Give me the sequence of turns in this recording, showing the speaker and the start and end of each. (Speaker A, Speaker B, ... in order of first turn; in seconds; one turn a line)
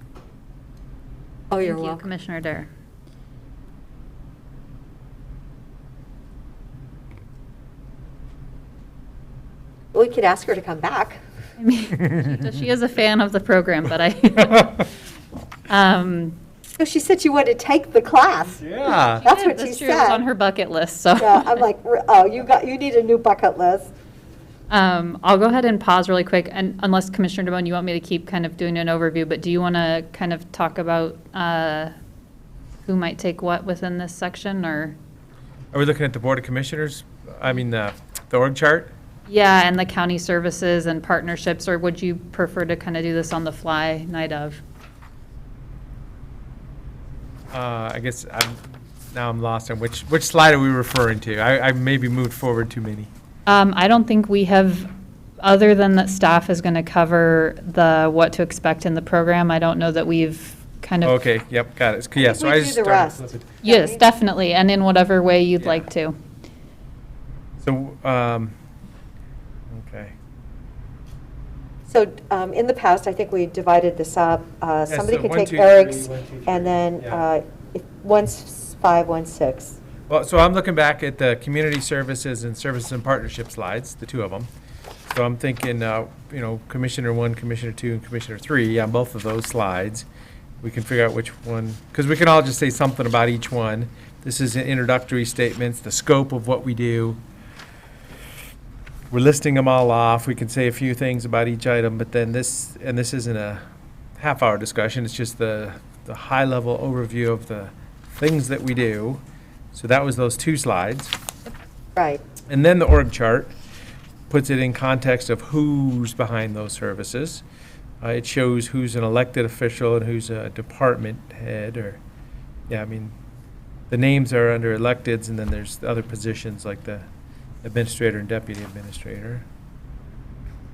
Speaker A: 1.5-2.0
Speaker B: 1.6-2.7
Speaker A: 9.9-11.2
Speaker B: 11.6-14.9
Speaker B: 15.7-16.4
Speaker A: 16.8-18.6
Speaker C: 18.6-19.2
Speaker A: 19.1-20.2
Speaker B: 19.2-21.6
Speaker A: 21.2-23.9
Speaker B: 24.7-31.9
Speaker B: 32.9-35.0
Speaker C: 35.7-38.9
Speaker B: 39.3-44.6
Speaker C: 47.5-53.1
Speaker B: 53.5-54.9
Speaker B: 55.4-61.2
Speaker C: 61.0-63.5
Speaker A: 62.2-64.0
Speaker B: 63.6-66.2
Speaker C: 67.6-68.5
Speaker C: 69.7-70.1
Speaker A: 71.9-79.8
Speaker C: 74.9-77.2
Speaker C: 80.1-84.5
Speaker C: 85.1-90.0
Speaker C: 90.6-97.2
Speaker C: 99.1-103.6
Speaker C: 104.2-109.2
Speaker C: 109.7-111.1
Speaker A: 112.0-112.2
Speaker C: 112.5-113.5
Speaker C: 114.3-117.4
Speaker C: 118.0-122.0
Speaker C: 122.7-123.1
Speaker C: 123.9-127.0
Speaker C: 127.6-129.4